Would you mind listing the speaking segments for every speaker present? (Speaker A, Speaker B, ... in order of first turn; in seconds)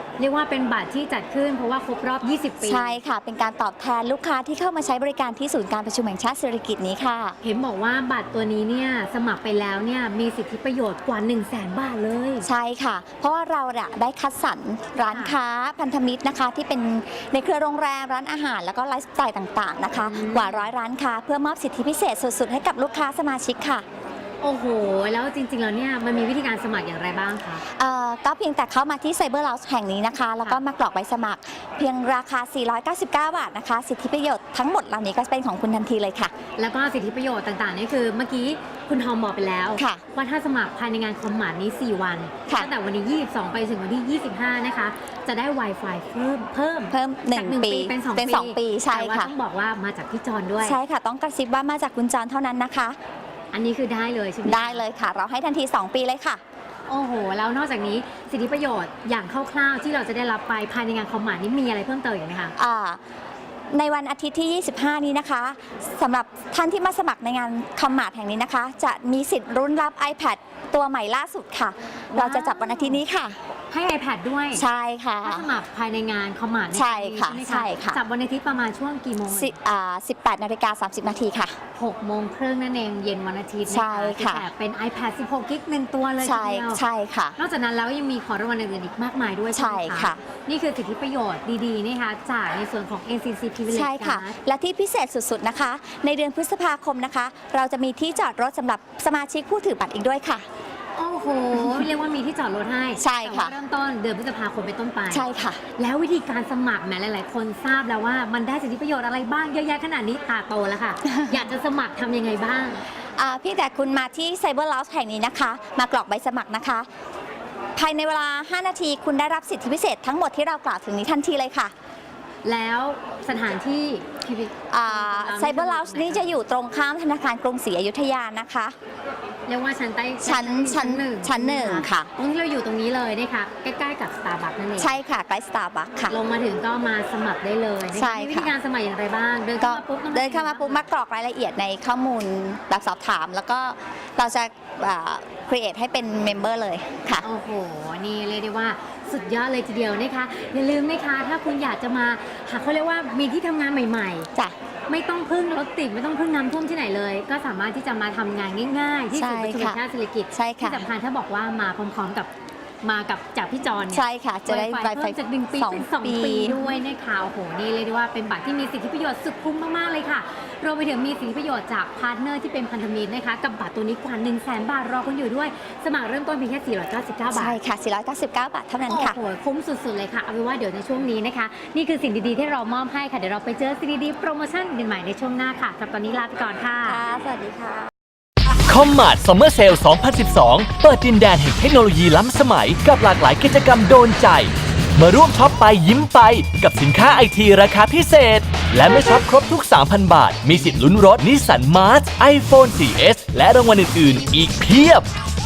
Speaker A: 0.2-3.0, 7.4-12.5, 15.1-15.3, 20.0-20.7, 24.4-27.6, 36.6-50.8, 53.5-54.8, 56.9-62.5, 72.1-73.0, 73.7-74.6, 75.2-79.5, 81.7-86.8, 87.4-94.3, 100.9-112.8, 122.4-126.3, 129.4-134.9, 136.1-140.8, 147.2-154.3, 154.9-162.3, 162.8-177.6, 178.9-187.0
Speaker B: 2.6-7.4, 12.4-23.8, 27.6-36.3, 39.8-40.0, 46.9-49.3, 50.6-53.0, 54.4-56.4, 62.5-63.0, 63.7-73.4, 74.5-75.5, 76.7-78.0, 79.3-81.6, 83.7-84.5, 86.2-87.4, 89.5-90.2, 93.7-100.5, 103.0-103.5, 105.1-105.6, 111.1-111.4, 113.2-116.9, 117.8-121.7, 124.7-128.8, 130.2-132.1, 134.8-136.1, 137.9-138.5, 139.6-147.2, 159.1-159.8, 160.3-160.8, 163.9-166.6, 177.3-179.2, 186.8-187.9
Speaker C: 188.7-205.1